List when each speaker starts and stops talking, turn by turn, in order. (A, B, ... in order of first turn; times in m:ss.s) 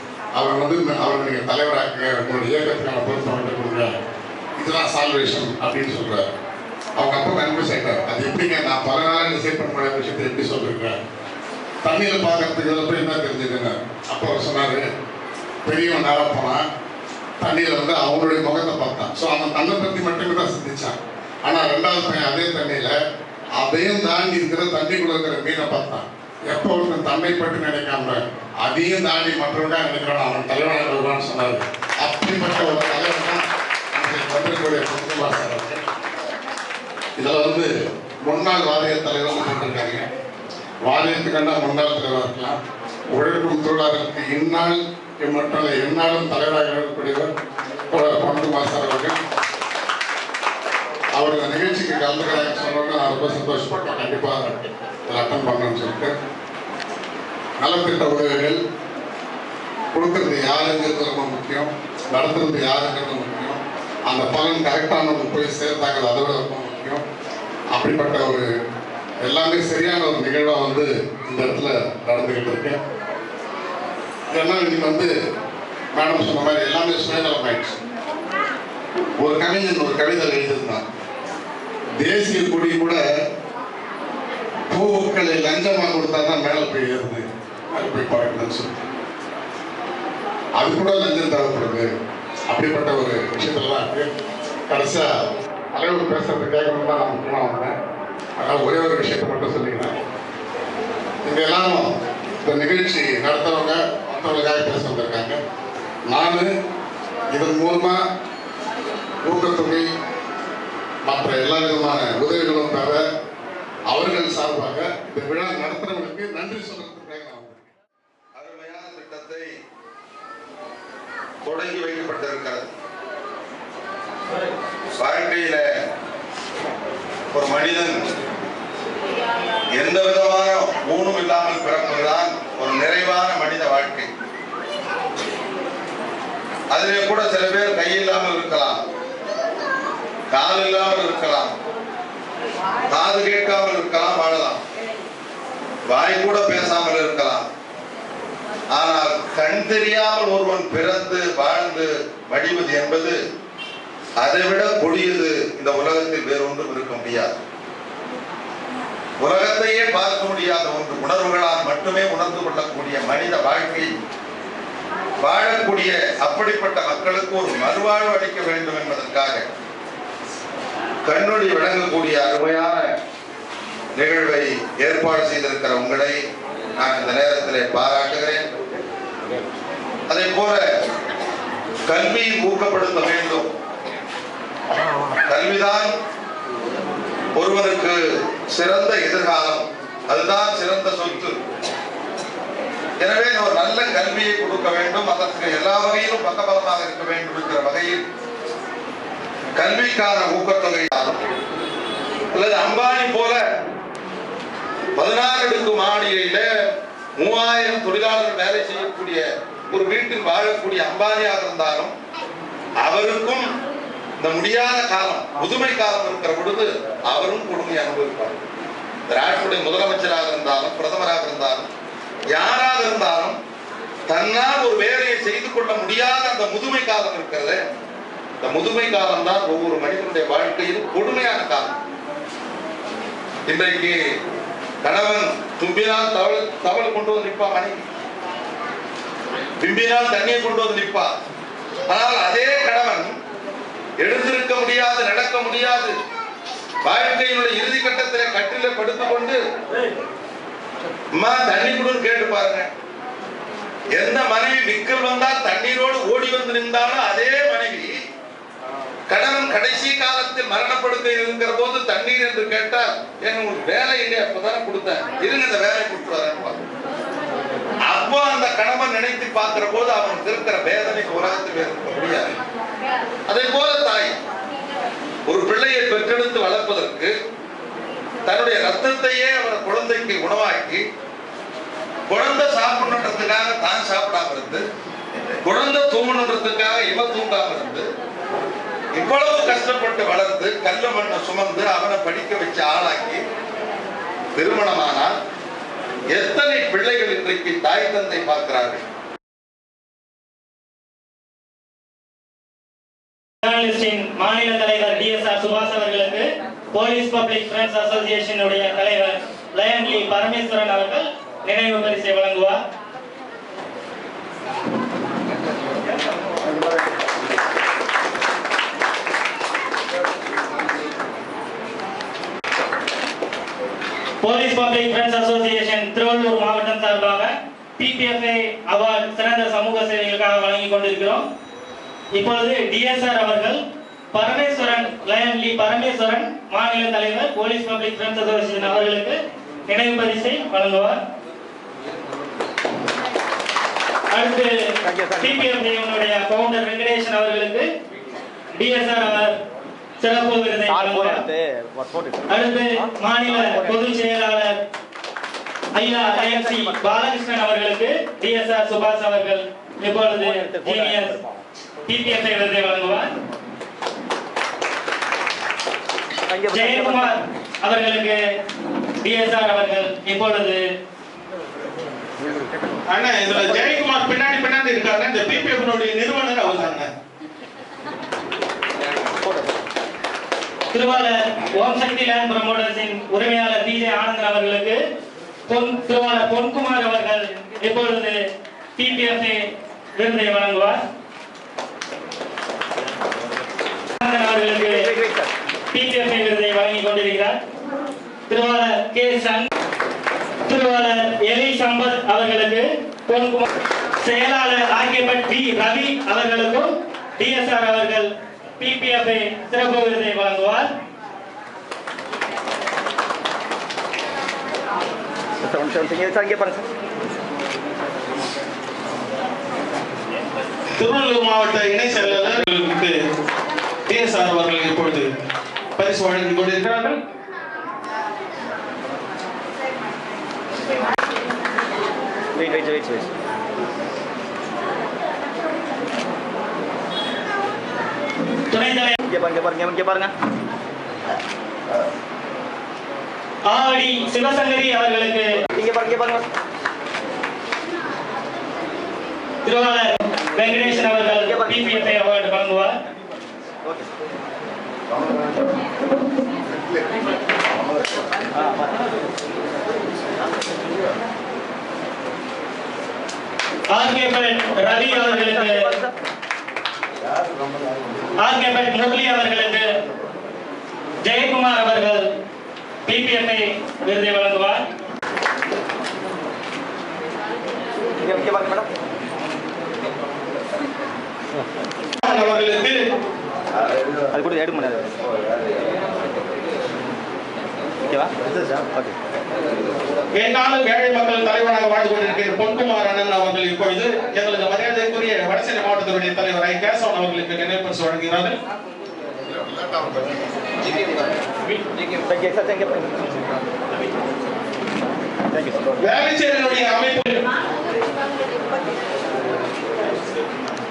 0:00.4-0:03.9 A
0:04.6-0:06.3 A
0:07.0-0:11.0 A
0:11.8-0:14.8 A
0:15.6-0:16.6 A
0:17.4-0:23.0 A
0:23.6-0:35.8 A
0:37.2-0:37.7 A
0:38.2-0:40.1 A
0:40.8-0:42.6 A
0:43.1-0:47.3 A
0:47.9-0:49.2 A
0:51.2-0:56.1 A
0:57.6-0:58.6 A
0:59.9-1:07.0 A
1:07.7-1:08.4 A
1:09.2-1:12.8 A
1:14.3-1:15.1 A
1:15.9-1:17.8 A
1:19.2-1:20.8 A
1:22.0-1:23.0 A
1:24.7-1:28.8 A
1:30.6-1:31.9 A
1:32.5-1:34.1 A
1:34.7-1:35.1 A
1:35.8-1:37.8 A
1:38.4-1:40.0 A
1:41.2-1:41.9 A
1:42.4-1:45.4 A
1:46.1-1:46.5 A
1:47.4-1:48.0 A
1:49.2-1:49.9 A
1:51.1-1:53.0 A
1:53.9-1:57.8 A
1:58.4-1:59.5 B
2:01.4-2:02.7 B
2:05.0-2:05.6 B
2:07.3-2:08.0 B
2:09.8-2:14.1 B
2:16.7-2:18.8 B
2:20.3-2:21.5 B
2:22.9-2:24.6 B
2:25.9-2:27.4 B
2:28.7-2:33.2 B
2:34.2-2:37.4 B
2:39.2-2:43.9 B
2:45.2-2:49.4 B
2:51.0-2:52.9 B
2:54.0-2:56.2 B
2:56.8-2:58.5 B
3:00.1-3:00.6 B
3:01.9-3:03.5 B
3:05.3-3:05.9 B
3:07.4-3:08.0 B
3:08.5-3:11.4 B
3:13.0-3:18.0 B
3:19.6-3:21.2 B
3:22.3-3:23.4 B
3:25.0-3:26.5 B
3:27.2-3:31.9 B
3:32.8-3:33.4 B
3:34.2-3:38.4 B
3:39.1-3:41.7 B
3:42.3-3:43.4 B
3:44.1-3:47.6 B
3:48.4-3:51.7 B
3:53.5-3:54.0 B
3:54.8-3:57.8 B
3:59.6-4:01.1 B
4:01.9-4:03.1 B
4:04.0-4:05.9 B
4:06.8-4:09.4 B
4:11.1-4:12.7 B
4:13.9-4:17.9 B
4:19.1-4:26.6 B
4:27.9-4:32.3 B
4:33.3-4:34.1 B
4:35.3-4:37.1 B
4:38.2-4:40.8 B
4:42.1-4:44.6 B
4:45.4-4:47.9 B
4:49.0-4:53.2 B
4:54.4-4:55.1 B
4:56.1-4:58.8 B
5:03.4-5:12.6 C
5:24.2-5:31.2 C
5:32.2-5:33.6 C
5:34.1-5:41.0 C
5:44.1-5:44.5 C
5:44.9-5:45.4 D
5:45.2-5:47.7 C
5:48.6-5:49.4 C
5:50.0-5:51.2 C
5:50.7-5:52.2 D
5:52.3-5:54.5 C
5:53.4-5:53.8 D
5:55.8-6:01.2 C
5:56.2-5:56.8 D
6:00.3-6:01.4 D
6:01.9-6:03.1 C
6:06.3-6:07.0 D
6:06.5-6:08.2 C
6:09.0-6:10.6 C
6:12.9-6:16.9 E
6:20.7-6:24.8 C
6:25.5-6:28.2 C
6:28.8-6:29.4 C
6:30.0-6:30.8 C
6:34.0-6:34.9 C
6:34.8-6:35.3 D
6:35.7-6:37.4 C
6:38.3-6:39.5 C
6:40.5-6:43.5 C
6:44.0-6:48.1 C
6:48.6-6:50.7 C
6:55.4-6:56.6 D
7:00.8-7:02.9 E
7:03.9-7:05.1 E
7:05.8-7:07.0 E
7:12.4-7:13.1 D
7:18.5-7:19.0 C
7:19.1-7:20.1 D
7:23.5-7:25.2 C
7:25.6-7:26.2 D
7:29.4-7:32.7 C
7:31.2-7:31.6 D
7:38.4-7:38.7 D
7:43.7-7:45.6 C
7:44.9-7:45.9 D
7:48.2-7:49.6 C
7:51.1-7:52.1 C
7:52.9-7:54.6 C
7:58.0-7:58.7 D
8:02.0-8:02.9 E
8:04.1-8:04.9 D
8:07.9-8:08.9 D
8:10.2-8:18.4 E
8:19.2-8:21.0 A
8:22.1-8:23.1 D
8:25.3-8:25.7 D
8:25.9-8:27.2 E